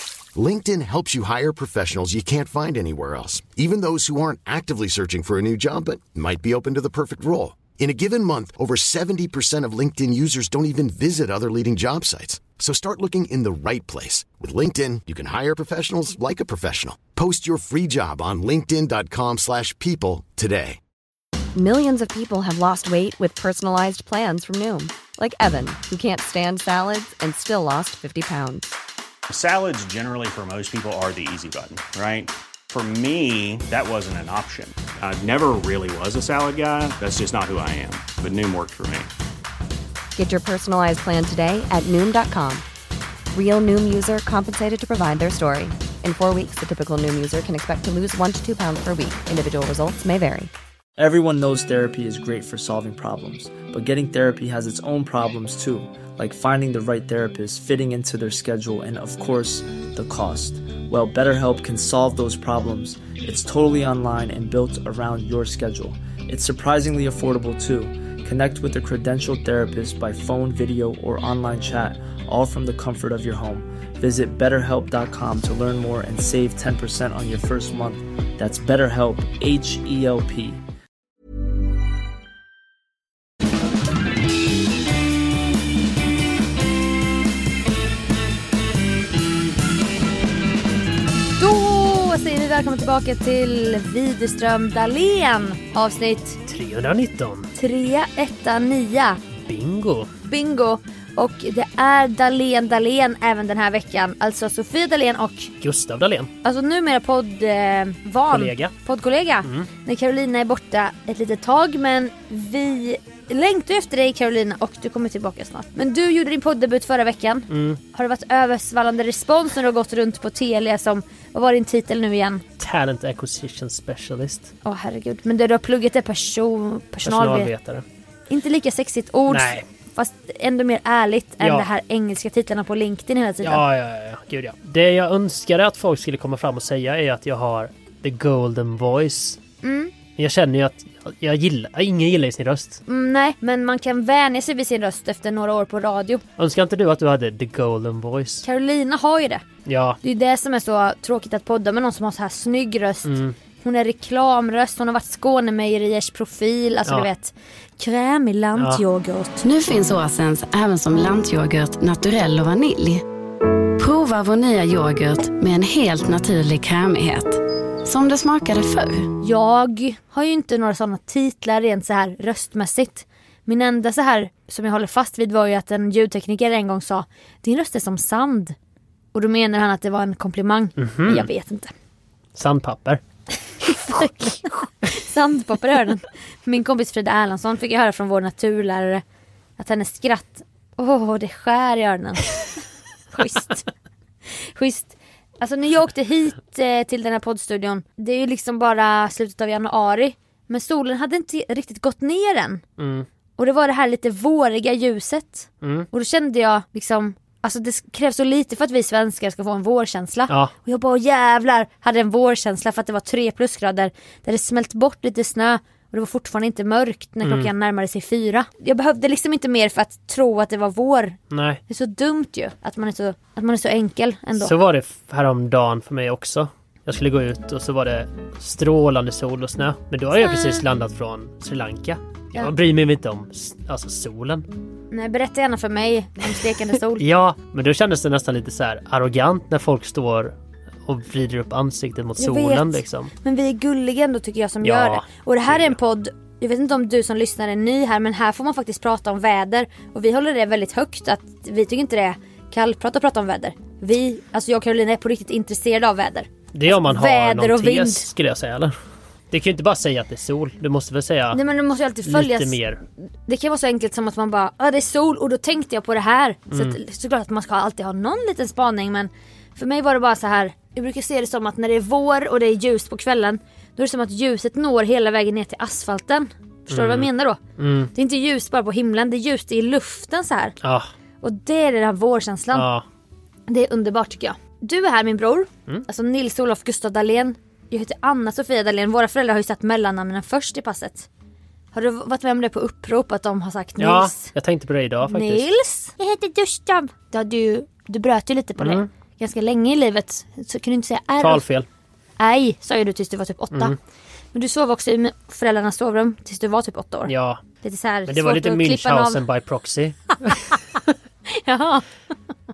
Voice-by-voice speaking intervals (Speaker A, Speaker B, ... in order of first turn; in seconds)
Speaker A: 0.3-20.8
Speaker B: 21.6-28.7, 40.2-42.6, 43.3-50.5
Speaker C: 29.3-39.1
Speaker D: 51.0-80.6
Speaker E: 91.4-96.4, 97.6-99.2, 100.3-105.5, 106.4-122.4, 124.7-127.5, 128.3-133.6, 139.6-139.9, 142.9-146.2, 148.4-149.4, 150.0-159.4, 169.2-178.6, 179.1-181.7, 183.7-189.0, 189.6-192.3, 193.1-193.7, 194.4-202.6, 203.4-221.2, 221.7-224.5, 230.2-230.6, 234.9-237.0, 242.2-258.1, 261.3-262.6, 263.3-277.4, 277.9-280.6, 281.2-282.7, 283.5-291.1, 291.7-294.3, 295.1-301.4, 302.2-303.8, 304.3-309.2, 311.3-311.9
Speaker F: 96.5-97.5, 99.5-100.1, 105.6-106.3, 108.3-108.7, 117.5-117.8, 122.6-124.5, 127.0-127.8, 129.3-129.7, 131.4-131.7, 133.4-139.4, 140.2-142.8, 146.4-148.4, 149.7-150.0, 153.1-153.3, 158.6-158.8, 180.8-181.3, 182.3-183.0, 202.8-203.1, 205.6-205.9, 217.2-217.5, 221.3-221.6, 224.4-234.5, 237.0-240.3, 240.8-243.1, 244.6-245.8, 256.5-258.8, 259.3-261.4, 262.1-262.8, 266.5-266.8, 276.7-277.9, 280.6-280.9, 282.5-282.8, 293.8-295.5, 298.6-298.9, 301.2-301.7, 307.1-307.4, 308.1-310.6
Speaker G: 159.4-163.1, 163.8-169.1